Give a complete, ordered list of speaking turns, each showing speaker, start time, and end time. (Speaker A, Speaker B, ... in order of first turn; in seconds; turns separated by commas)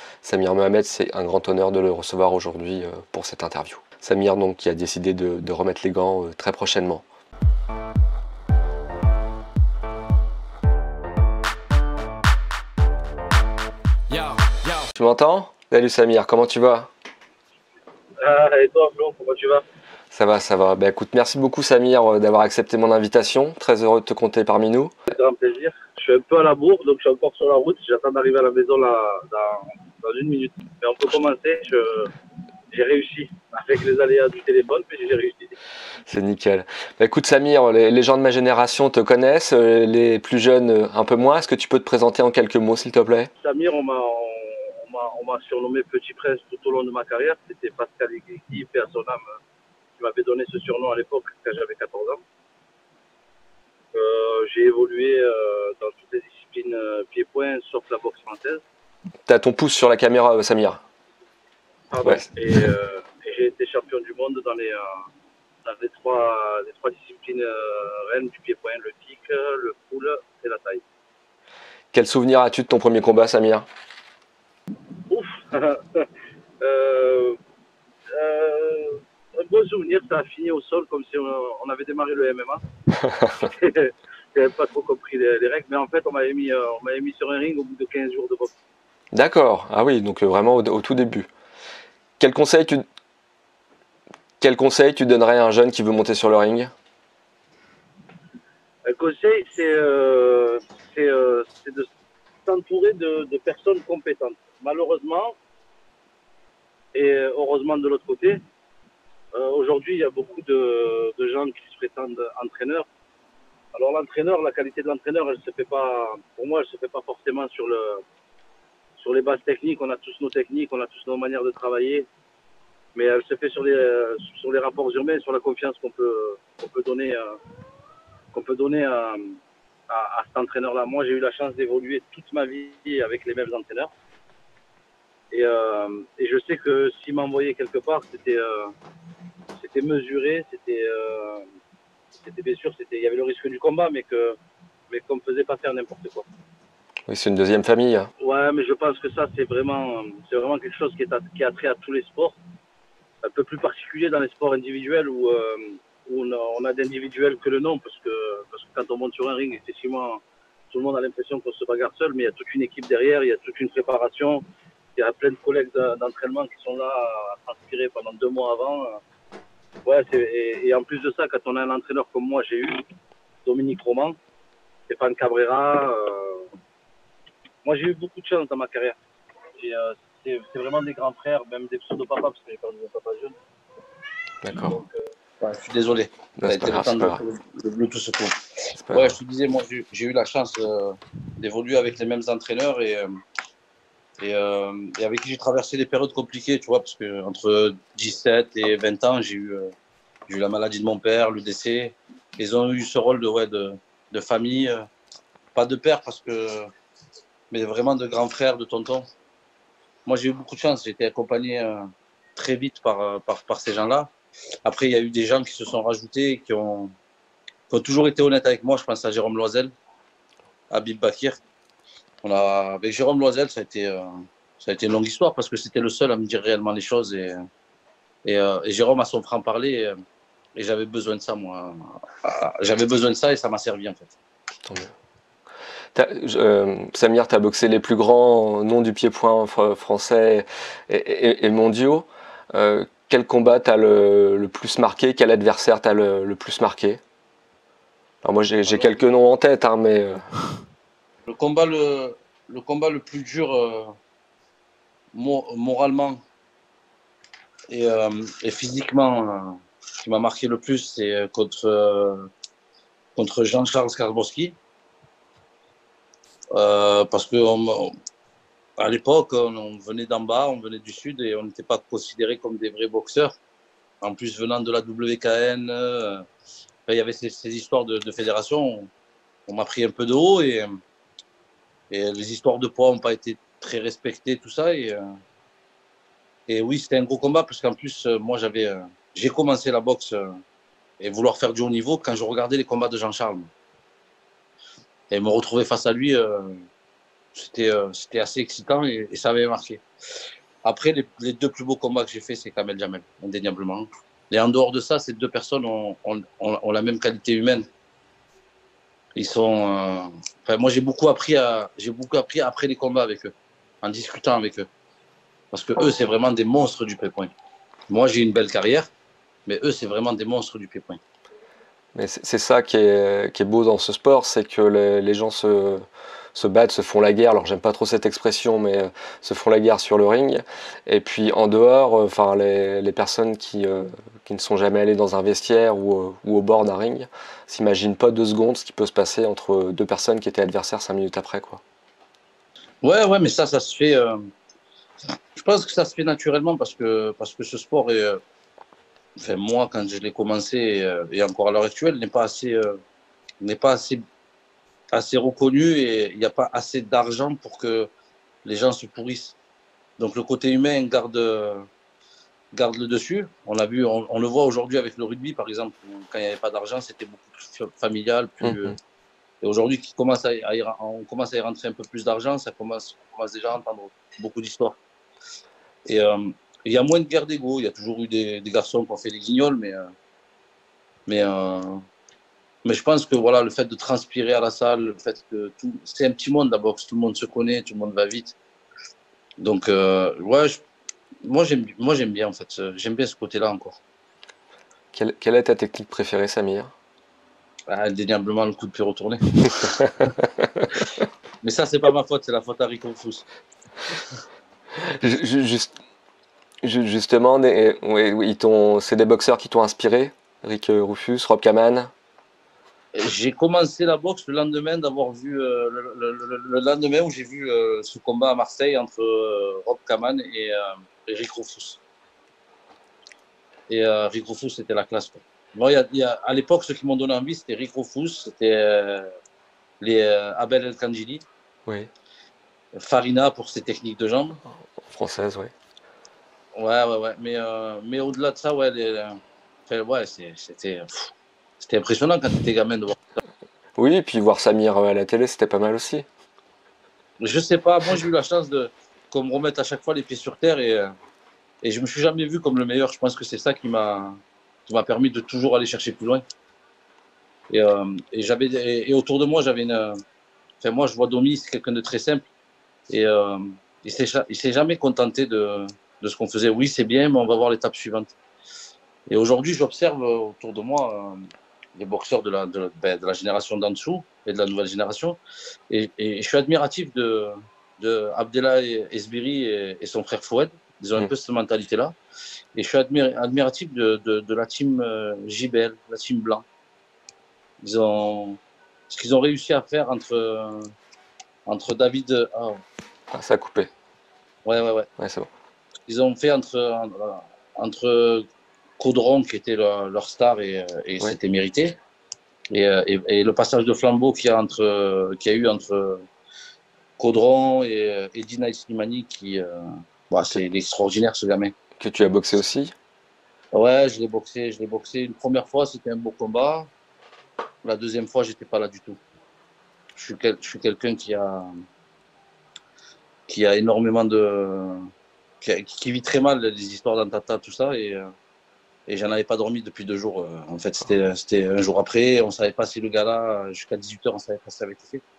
Speaker A: 0.2-7.0, Speaker A: 14.6-16.9, Speaker B: 18.2-19.6, Speaker A: 20.1-24.9, Speaker B: 25.1-32.1, Speaker B: 32.7-35.5, Speaker A: 36.1-43.3, Speaker B: 43.4-49.2, Speaker B: 50.0-52.2, Speaker B: 53.9-58.6, Speaker A: 59.3-60.8, Speaker B: 61.9-64.9, Speaker B: 65.6-70.8, Speaker A: 71.9-73.7, Speaker B: 75.1-76.0, Speaker B: 76.6-77.4, Speaker B: 78.1-82.6, Speaker A: 83.0-83.3, Speaker B: 83.4-88.5, Speaker A: 89.1-91.3, Speaker A: 92.2-92.8, Speaker A: 94.4-96.7, Speaker B: 98.9-101.9, Speaker B: 102.5-105.3, Speaker B: 106.9-108.4, Speaker B: 109.3-112.8, Speaker B: 113.7-118.0, Speaker B: 119.0-122.1, Speaker B: 122.9-127.4, Speaker B: 128.3-129.3, Speaker B: 129.9-133.9, Speaker B: 135.3-138.7, Speaker B: 139.6-141.4, Speaker B: 142.2-144.4, Speaker B: 144.9-146.3, Speaker A: 147.1-148.1, Speaker B: 148.2-152.4, Speaker B: 153.2-164.4, Speaker B: 164.9-169.0, Speaker B: 169.8-172.8, Speaker B: 173.4-174.2, Speaker B: 174.9-176.5, Speaker B: 177.6-178.9, Speaker B: 179.6-183.3, Speaker A: 184.4-184.8, Speaker B: 184.6-188.3, Speaker A: 186.4-187.2, Speaker A: 188.8-189.2, Speaker B: 188.9-193.1, Speaker B: 194.2-199.7, Speaker B: 200.3-204.8, Speaker B: 205.5-206.7, Speaker B: 207.5-209.1, Speaker B: 210.1-211.8, Speaker B: 212.3-214.1, Speaker B: 214.6-216.9, Speaker B: 217.7-219.7, Speaker B: 220.7-221.4, Speaker B: 222.2-224.0, Speaker B: 224.6-227.4, Speaker B: 228.2-229.9, Speaker B: 230.6-234.1, Speaker A: 234.7-234.9, Speaker A: 235.9-247.0, Speaker A: 248.2-250.6, Speaker B: 248.7-249.0, Speaker B: 251.3-253.9, Speaker B: 255.1-256.2, Speaker B: 257.7-262.3, Speaker B: 263.1-264.6, Speaker B: 266.5-267.9, Speaker B: 268.8-273.3, Speaker B: 274.0-276.2, Speaker B: 276.9-278.9, Speaker B: 279.5-280.7, Speaker B: 281.9-285.0, Speaker B: 286.5-290.2, Speaker B: 291.0-293.5, Speaker B: 295.1-296.6, Speaker B: 297.3-299.8, Speaker B: 300.6-307.7, Speaker B: 309.1-314.7, Speaker B: 315.5-317.3, Speaker B: 317.9-318.9, Speaker B: 319.4-321.0, Speaker A: 321.9-341.6, Speaker B: 342.8-344.2, Speaker B: 345.4-348.2, Speaker B: 349.2-352.8, Speaker B: 353.4-354.0, Speaker B: 354.9-357.9, Speaker B: 358.4-359.4, Speaker B: 360.0-361.6, Speaker B: 362.5-368.8, Speaker A: 368.4-368.7, Speaker B: 369.4-374.8, Speaker B: 375.9-379.8, Speaker B: 381.1-381.8, Speaker B: 382.6-388.4, Speaker B: 389.4-390.6, Speaker B: 391.2-393.8, Speaker A: 394.9-396.7, Speaker B: 397.7-399.8, Speaker A: 399.9-400.7, Speaker B: 401.4-403.2, Speaker A: 404.9-405.7, Speaker A: 406.6-411.9, Speaker B: 412.9-421.8, Speaker B: 423.7-429.1, Speaker B: 429.8-431.2, Speaker B: 432.8-434.4, Speaker A: 434.9-435.5, Speaker B: 436.5-439.2, Speaker B: 439.7-443.0, Speaker A: 443.8-446.1, Speaker B: 447.2-450.9, Speaker B: 451.6-456.2, Speaker B: 457.5-459.9, Speaker B: 460.6-462.2, Speaker B: 462.9-468.1, Speaker B: 469.1-471.2, Speaker B: 471.8-475.2, Speaker B: 475.7-481.9, Speaker B: 482.5-486.4, Speaker B: 487.6-490.7, Speaker B: 491.5-492.6, Speaker A: 493.1-493.7, Speaker B: 494.4-494.9, Speaker A: 495.0-495.3, Speaker B: 495.9-498.2, Speaker B: 498.8-501.8, Speaker B: 502.5-506.1, Speaker B: 507.0-509.5, Speaker B: 510.1-511.5, Speaker A: 511.8-512.7, Speaker B: 513.5-516.7, Speaker B: 517.6-519.0, Speaker B: 520.0-521.4, Speaker B: 523.3-524.8, Speaker B: 525.4-528.1, Speaker B: 528.9-535.0